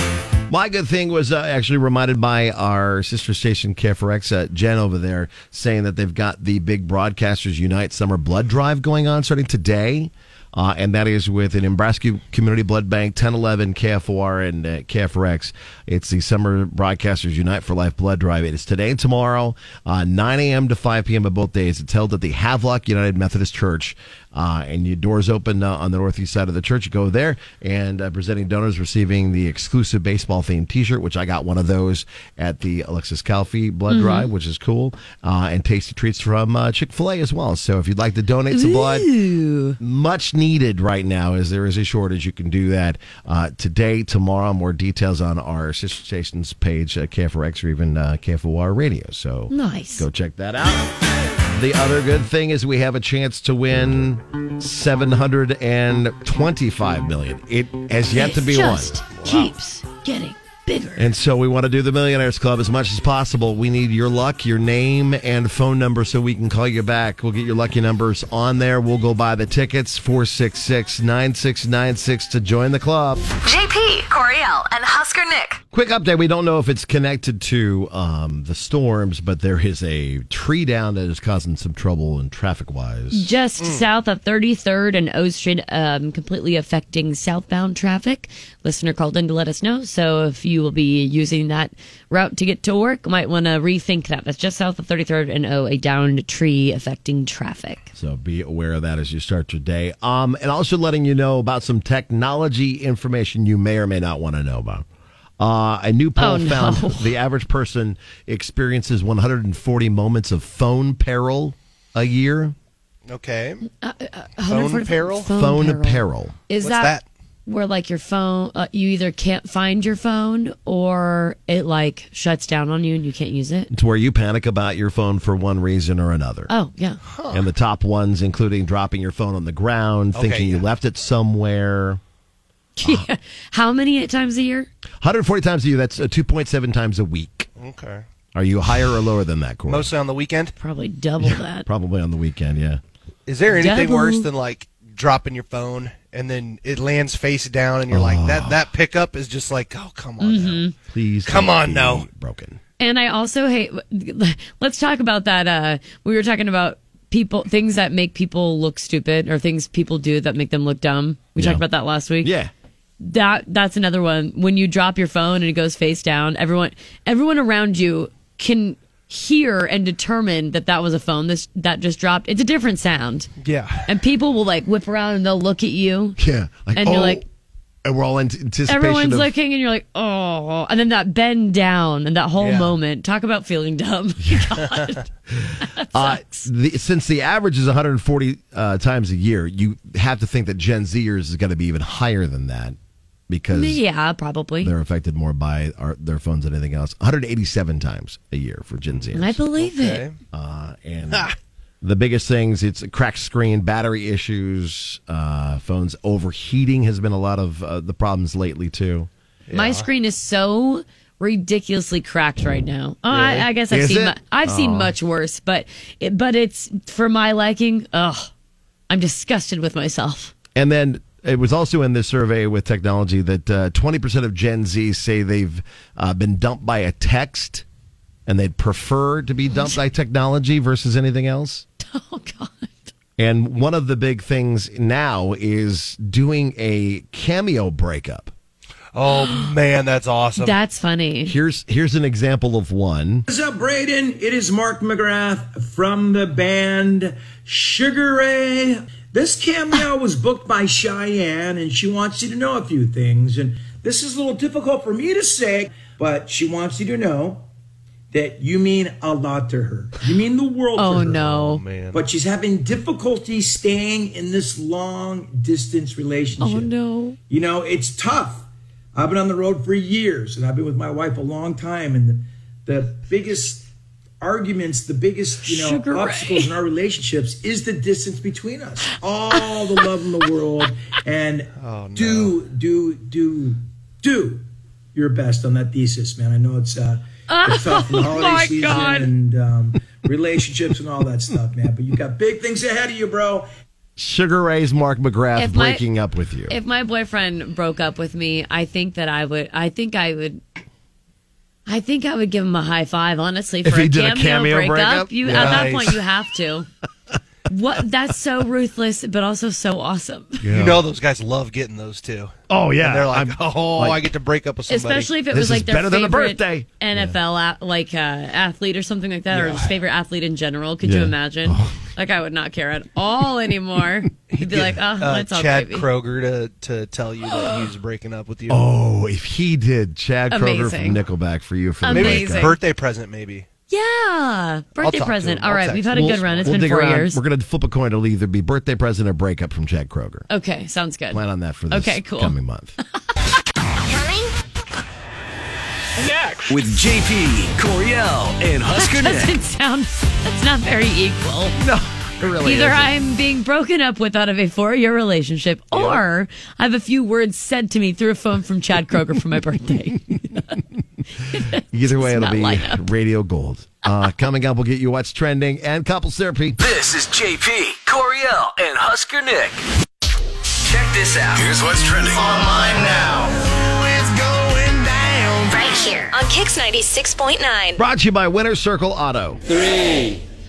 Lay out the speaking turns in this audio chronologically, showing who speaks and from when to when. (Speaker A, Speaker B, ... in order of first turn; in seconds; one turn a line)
Speaker A: 0.5-39.1
Speaker B: 33.9-34.3
Speaker B: 38.5-39.8
Speaker A: 39.8-50.9
Speaker B: 49.5-50.0
Speaker A: 51.5-59.3
Speaker B: 58.1-61.1
Speaker A: 61.0-73.2
Speaker C: 73.4-75.6
Speaker A: 75.7-83.3
Speaker B: 83.1-97.9
Speaker A: 97.9-104.8
Speaker A: 105.4-112.5
Speaker B: 106.2-107.1
Speaker D: 113.1-113.6
Speaker B: 113.8-123.7
Speaker D: 114.5-115.3
Speaker A: 115.3-116.4
Speaker D: 116.6-117.0
Speaker A: 123.7-126.5
Speaker B: 126.5-127.0
Speaker D: 127.0-127.5
Speaker A: 127.3-132.0
Speaker D: 130.1-130.6
Speaker B: 132.8-134.7
Speaker A: 135.0-137.5
Speaker D: 137.6-138.0
Speaker A: 138.3-139.9
Speaker D: 139.7-140.5
Speaker B: 140.6-141.7
Speaker A: 141.2-142.8
Speaker D: 143.3-150.6
Speaker B: 143.5-144.2
Speaker A: 147.9-148.6
Speaker B: 150.2-150.7
Speaker A: 150.9-152.6
Speaker D: 151.2-152.1
Speaker B: 152.8-162.3
Speaker A: 161.3-161.6
Speaker A: 162.2-162.5
Speaker B: 163.0-173.3
Speaker D: 173.4-173.9
Speaker B: 173.8-176.2
Speaker A: 176.2-177.2
Speaker B: 176.7-177.2
Speaker A: 177.8-179.3
Speaker B: 178.7-185.0
Speaker D: 182.4-182.7
Speaker A: 184.2-184.6
Speaker A: 185.4-192.8
Speaker B: 185.6-186.5
Speaker A: 193.3-193.8
Speaker B: 193.5-194.7
Speaker A: 194.6-199.4
Speaker B: 199.1-200.0
Speaker D: 199.6-200.2
Speaker A: 200.3-209.1
Speaker D: 209.5-209.9
Speaker B: 209.5-218.3
Speaker A: 213.1-214.9
Speaker B: 218.9-220.3
Speaker A: 220.5-227.6
Speaker A: 228.2-231.6
Speaker B: 231.8-232.9
Speaker A: 233.2-238.3
Speaker D: 238.9-240.6
Speaker B: 239.1-239.4
Speaker B: 240.4-241.3
Speaker A: 241.2-243.3
Speaker E: 243.3-257.5
Speaker E: 258.1-261.2
Speaker B: 260.8-261.6
Speaker D: 261.1-262.1
Speaker E: 261.9-266.7
Speaker B: 266.4-267.2
Speaker E: 267.3-273.7
Speaker E: 274.2-293.5
Speaker B: 275.4-276.5
Speaker D: 281.6-282.4
Speaker B: 287.3-289.1
Speaker A: 294.0-296.5
Speaker B: 295.4-295.8
Speaker B: 296.5-300.4
Speaker B: 301.7-306.7
Speaker A: 303.6-305.9
Speaker D: 305.2-305.9
Speaker B: 307.5-310.4
Speaker A: 310.4-310.9
Speaker D: 310.5-315.1
Speaker A: 312.5-314.0
Speaker B: 314.7-325.9
Speaker A: 315.3-317.2
Speaker D: 319.3-319.7
Speaker A: 320.8-321.8
Speaker D: 324.3-328.6
Speaker A: 328.5-332.6
Speaker B: 330.3-331.0
Speaker B: 331.8-332.6
Speaker D: 331.9-333.5
Speaker B: 333.7-337.2
Speaker D: 334.8-336.5
Speaker A: 335.9-340.3
Speaker B: 340.3-342.3
Speaker A: 341.1-342.7
Speaker C: 343.9-344.3
Speaker F: 346.5-349.4
Speaker B: 348.7-351.6
Speaker A: 351.6-352.9
Speaker B: 352.4-360.6
Speaker B: 361.3-362.8
Speaker A: 361.7-366.6
Speaker F: 366.6-369.6
Speaker F: 370.6-372.2
Speaker A: 372.1-375.6
Speaker C: 375.5-377.8
Speaker A: 377.8-379.4